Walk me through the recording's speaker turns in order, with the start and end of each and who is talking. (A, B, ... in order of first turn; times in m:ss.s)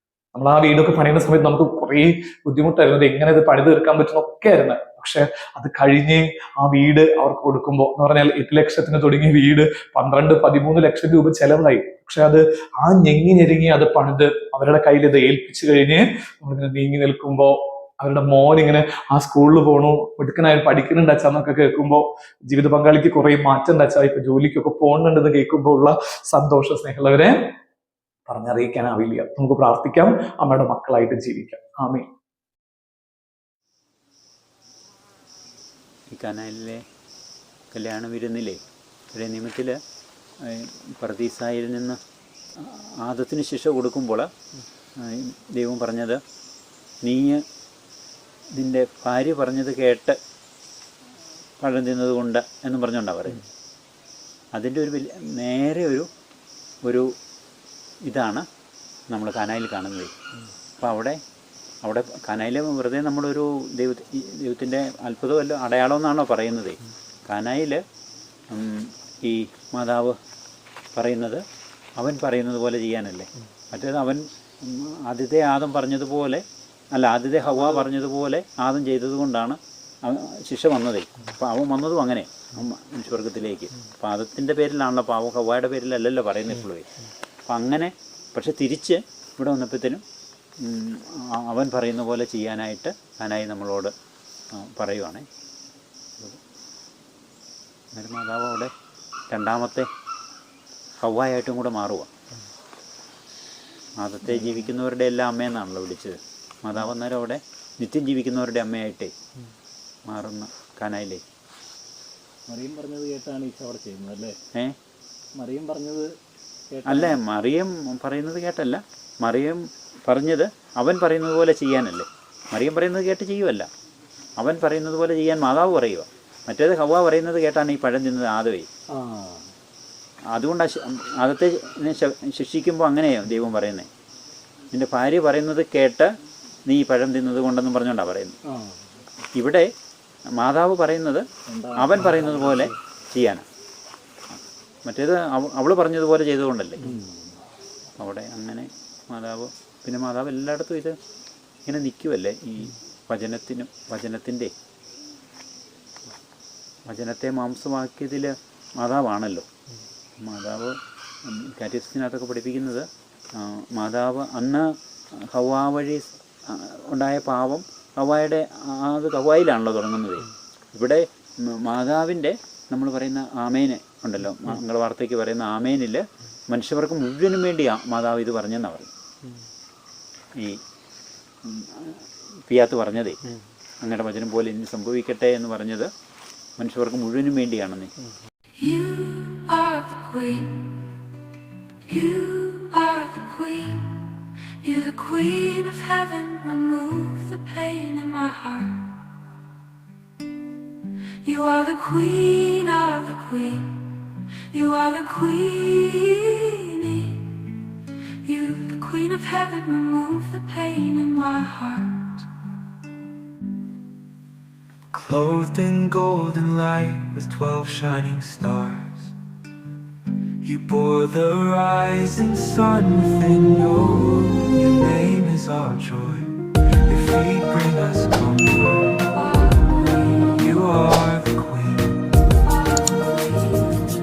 0:00.3-0:27.5 A
0:28.3-0:32.1 A
0:36.1-0:36.8 B
0:37.7-0:38.6 B
0:39.1-0:39.8 B
0:40.4-0:42.0 B
0:42.6-0:44.3 B
0:45.0-0:46.2 B
0:47.0-0:47.4 B
0:48.6-0:50.2 B
0:51.6-0:53.4 B
0:54.5-0:56.1 B
0:56.8-0:57.1 B
0:58.0-0:58.4 B
0:59.1-1:00.1 B
1:00.8-1:01.2 B
1:01.8-1:07.8 B
1:08.5-1:10.2 B
1:10.9-1:11.4 B
1:12.0-1:26.9 B
1:27.5-1:30.0 B
1:30.6-1:33.9 B
1:34.5-1:35.2 B
1:37.9-1:38.7 B
1:39.3-1:39.9 B
1:41.0-1:42.1 B
1:44.0-1:49.1 B
1:50.0-1:51.2 B
1:52.5-1:54.4 C
1:55.3-1:56.2 C
1:56.7-1:57.2 C
1:56.8-2:03.7 B
2:04.4-2:08.7 B
2:08.9-2:09.4 C
2:10.3-2:13.9 B
2:14.7-2:16.1 B
2:16.6-2:18.3 B
2:18.5-2:18.8 C
2:19.3-2:19.7 B
2:20.3-2:23.4 B
2:21.5-2:22.7 C
2:24.8-2:26.8 B
2:26.8-2:27.2 C
2:28.0-2:30.9 B
2:31.6-2:34.5 B
2:36.9-2:39.4 B
2:40.2-2:44.6 B
2:45.3-2:58.9 B
3:01.4-3:03.2 B
3:03.8-3:05.9 B
3:06.6-3:07.9 B
3:08.6-3:10.8 D
3:11.9-3:19.0 D
3:21.2-3:27.6 D
3:28.2-3:32.2 D
3:34.9-3:39.1 E
3:40.4-3:49.0 E
3:49.2-3:50.3 D
3:50.3-3:52.1 E
3:52.5-3:53.8 D